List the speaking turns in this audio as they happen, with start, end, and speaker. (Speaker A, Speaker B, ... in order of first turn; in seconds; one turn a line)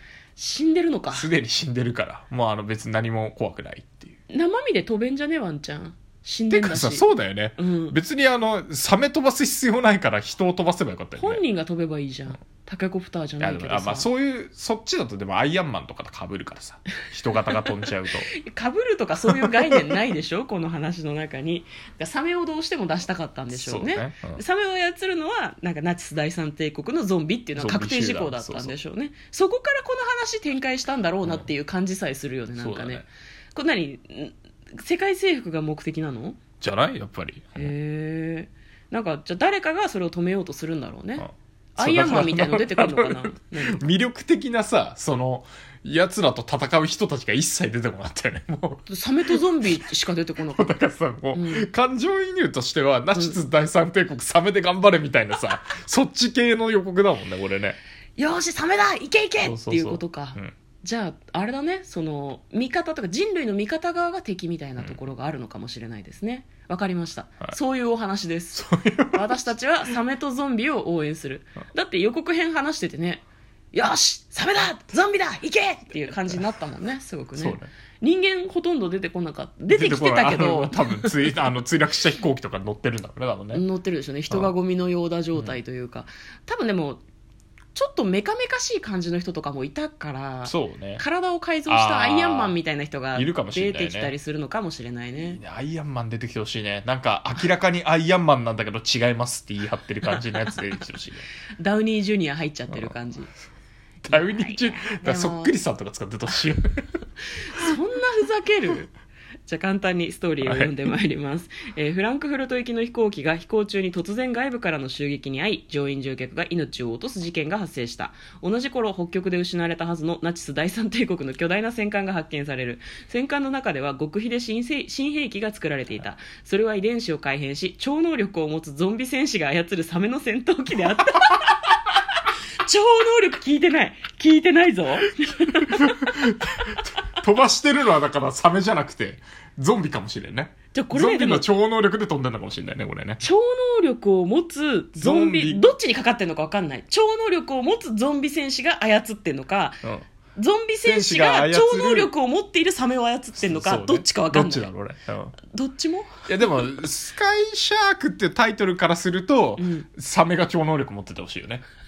Speaker A: 0.3-1.3
Speaker B: 1.1-4.1
Speaker A: 4.3-8.0
Speaker B: 6.5-11.4
Speaker A: 11.2-14.1
Speaker B: 13.4-18.3
Speaker A: 17.5-36.4
Speaker B: 23.5-24.4
Speaker B: 27.6-28.7
Speaker B: 32.5-33.1
Speaker B: 36.6-37.7
Speaker A: 37.5-43.9
Speaker B: 41.2-48.8
Speaker A: 48.9-50.7
Speaker B: 50.5-57.8
Speaker A: 51.3-51.7
Speaker A: 58.2-81.4
Speaker B: 59.4-60.5
Speaker B: 68.5-69.4
Speaker B: 77.3-77.7
Speaker B: 79.7-83.6
Speaker A: 83.5-87.0
Speaker A: 87.7-95.4
Speaker B: 90.4-91.0
Speaker B: 91.7-92.5
Speaker B: 93.1-94.1
Speaker B: 95.2-101.2
Speaker A: 101.6-103.3
Speaker B: 104.0-106.8
Speaker A: 104.1-105.5
Speaker A: 107.4-108.9
Speaker A: 109.5-131.6
Speaker B: 110.4-110.7
Speaker A: 132.6-136.1
Speaker B: 135.7-143.2
Speaker A: 140.7-141.5
Speaker A: 143.2-149.8
Speaker B: 145.0-145.7
Speaker A: 150.3-154.7
Speaker B: 150.8-152.1
Speaker B: 153.4-155.3
Speaker A: 155.5-156.2
Speaker B: 156.3-161.6
Speaker A: 159.6-159.8